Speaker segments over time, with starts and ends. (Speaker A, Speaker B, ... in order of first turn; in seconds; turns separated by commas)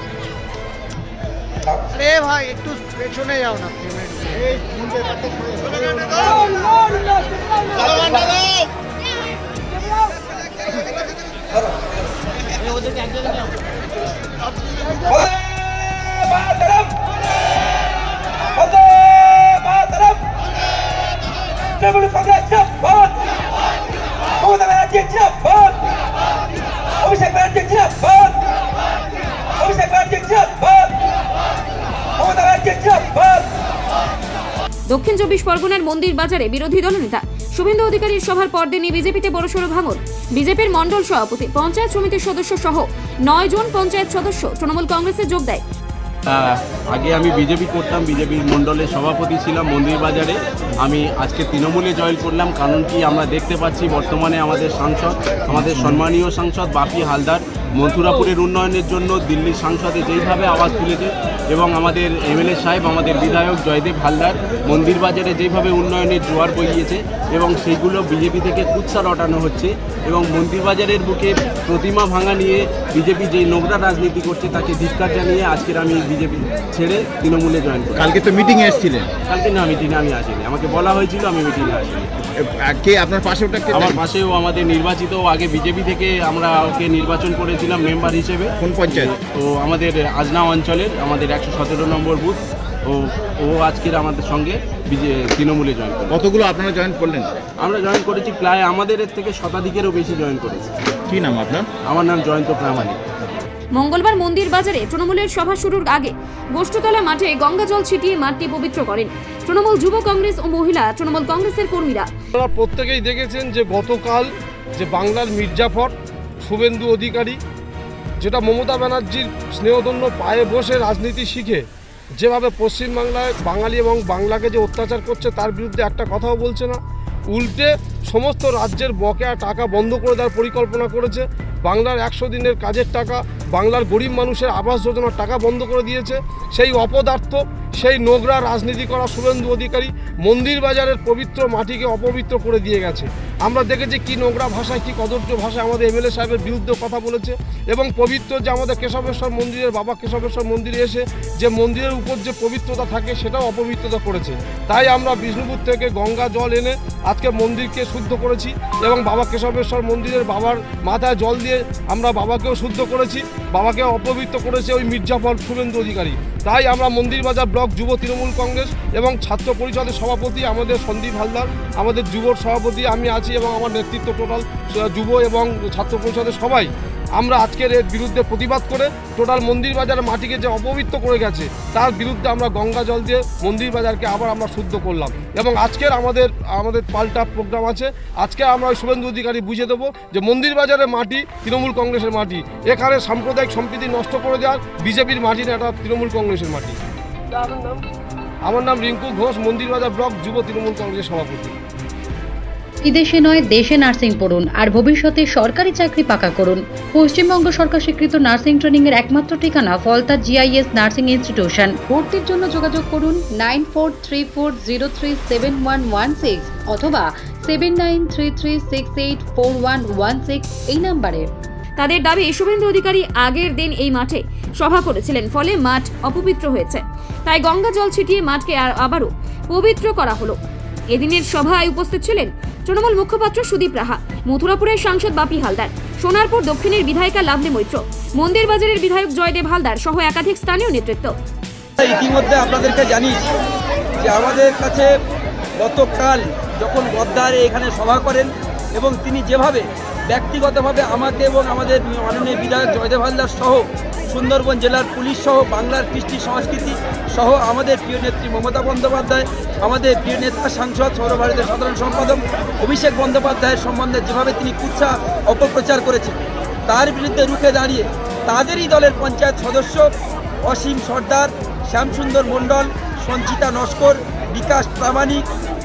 Speaker A: 2.2-4.2, Speaker B: 5.7-8.4, Speaker B: 11.5-12.1, Speaker B: 15.1-17.0, Speaker B: 17.6-17.8, Speaker B: 18.5-20.2, Speaker B: 21.8-23.4, Speaker B: 24.4-25.9, Speaker B: 27.0-28.4, Speaker B: 29.6-31.0, Speaker B: 32.2-33.5, Speaker C: 34.9-45.6, Speaker D: 46.3-78.2, Speaker E: 55.5-56.0, Speaker E: 78.0-79.1, Speaker D: 79.3-82.1, Speaker E: 82.4-84.0, Speaker D: 83.7-96.3, Speaker E: 88.6-89.1, Speaker E: 96.1-97.3, Speaker D: 97.6-100.7, Speaker E: 101.1-101.7, Speaker D: 101.9-103.0, Speaker C: 103.7-112.1, Speaker F: 112.3-117.4, Speaker F: 118.2-121.6, Speaker F: 122.2-126.8, Speaker F: 127.3-196.8, Speaker F: 197.4-197.8, Speaker F: 198.5-201.6, Speaker G: 202.8-221.3, Speaker C: 221.8-230.4, Speaker C: 230.9-241.1, Speaker B: 241.8-243.3, Speaker B: 244.0-244.9, Speaker B: 245.6-269.9, Speaker B: 270.4-275.2